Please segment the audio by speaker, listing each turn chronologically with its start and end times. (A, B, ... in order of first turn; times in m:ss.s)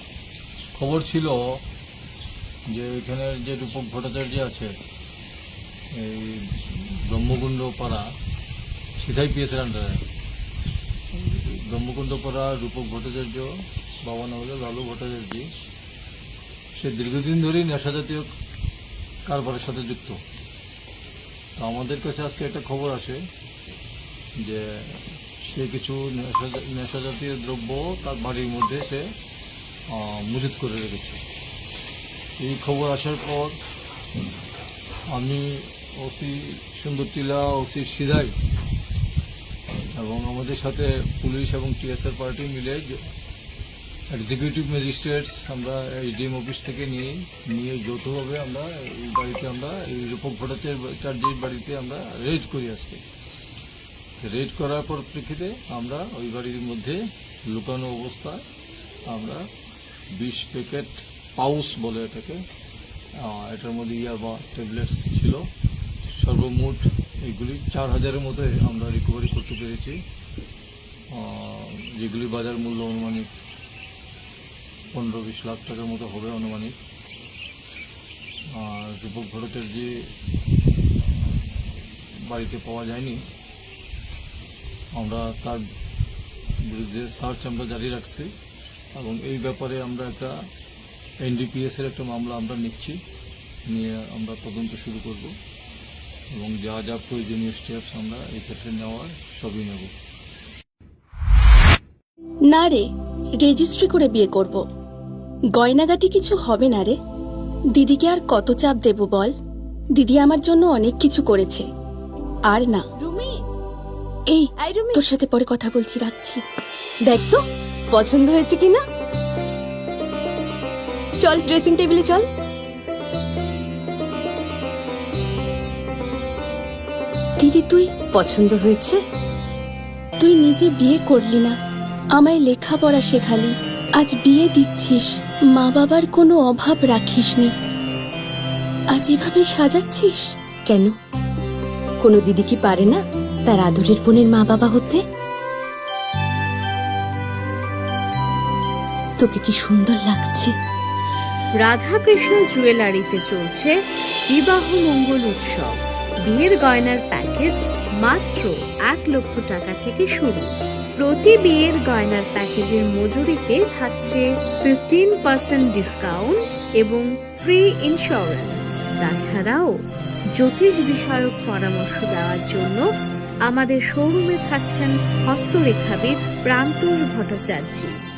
0:00.8-0:01.6 A
0:02.7-0:04.8 A
0:05.9-0:08.1 A
0:09.0-0:10.0 A
0:11.1-0:13.5 A
0:14.0-0:15.5 A
0:16.8-0:18.3 A
0:19.3-0:20.2 A
0:21.6-0:23.3 A
0:24.4-0:29.1 A
0:29.9-0:31.2 A
0:32.4-0:33.6 A
0:35.1-0:38.4 A
0:40.0-0:43.0 A
0:44.1-0:53.1 A
0:54.2-0:58.4 A
0:59.1-0:59.4 A
1:00.1-1:02.4 A
1:03.2-1:05.5 A
1:06.1-1:10.0 A
1:11.1-1:13.3 A
1:14.9-1:16.8 A
1:18.5-1:20.1 A
1:22.2-1:23.2 A
1:25.0-1:25.6 A
1:26.6-1:28.3 A
1:29.0-1:30.3 A
1:31.2-1:33.0 A
1:33.7-1:35.3 A
1:36.3-1:39.9 A
1:42.5-1:42.8 B
1:43.4-1:44.6 B
1:45.6-1:47.0 B
1:47.8-1:49.3 B
1:50.0-1:51.6 B
1:52.5-1:52.8 B
1:53.0-1:53.3 C
1:54.3-1:56.4 B
1:54.6-1:55.0 C
1:57.1-1:58.8 C
2:01.2-2:02.2 C
2:07.4-2:07.9 B
2:08.1-2:09.0 C
2:10.2-2:11.5 B
2:12.2-2:17.5 B
2:19.0-2:20.2 B
2:20.7-2:20.9 C
2:22.0-2:25.0 C
2:29.2-2:30.5 C
2:31.6-2:33.7 D
2:34.3-2:49.7 D
2:50.4-2:52.8 D
2:53.5-2:57.9 D